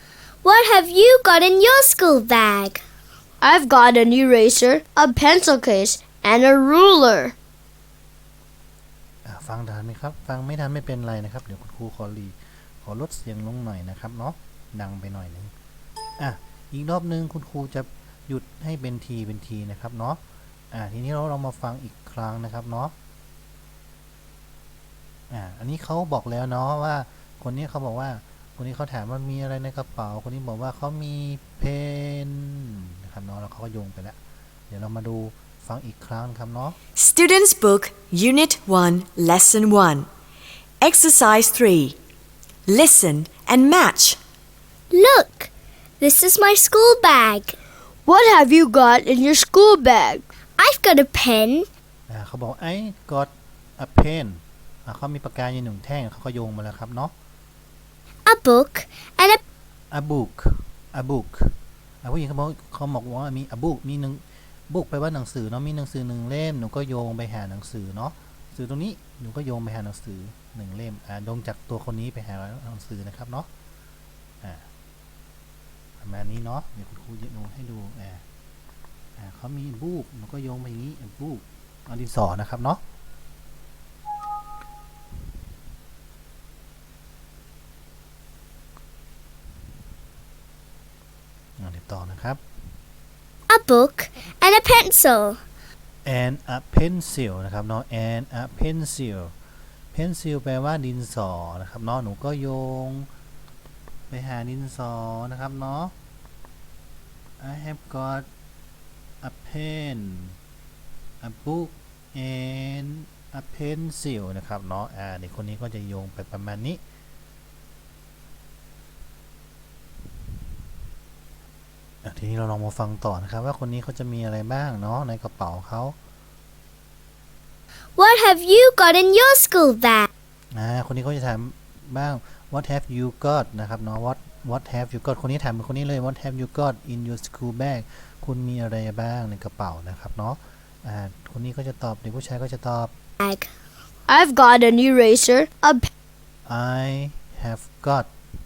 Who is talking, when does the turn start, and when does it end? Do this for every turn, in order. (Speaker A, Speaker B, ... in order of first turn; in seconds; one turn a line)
Speaker A: 0.4-2.8
Speaker B: 3.4-7.3
Speaker C: 9.2-15.5
Speaker C: 16.2-20.2
Speaker C: 20.7-22.9
Speaker C: 25.3-34.2
Speaker C: 34.7-36.8
Speaker D: 37.0-40.1
Speaker D: 40.8-42.0
Speaker D: 42.7-44.2
Speaker A: 44.9-45.5
Speaker A: 46.0-47.5
Speaker B: 48.0-50.2
Speaker A: 50.6-51.7
Speaker C: 52.1-57.1
Speaker A: 58.2-59.4
Speaker C: 59.9-73.5
Speaker C: 74.4-74.7
Speaker C: 76.0-78.2
Speaker C: 79.2-82.8
Speaker C: 91.6-92.4
Speaker A: 93.5-95.4
Speaker C: 96.0-99.3
Speaker C: 99.9-103.1
Speaker C: 104.1-105.9
Speaker C: 107.4-108.3
Speaker C: 109.2-110.4
Speaker C: 111.2-116.8
Speaker C: 122.0-126.0
Speaker A: 128.0-130.1
Speaker C: 130.5-142.9
Speaker A: 143.2-143.5
Speaker B: 144.1-145.9
Speaker C: 146.4-148.1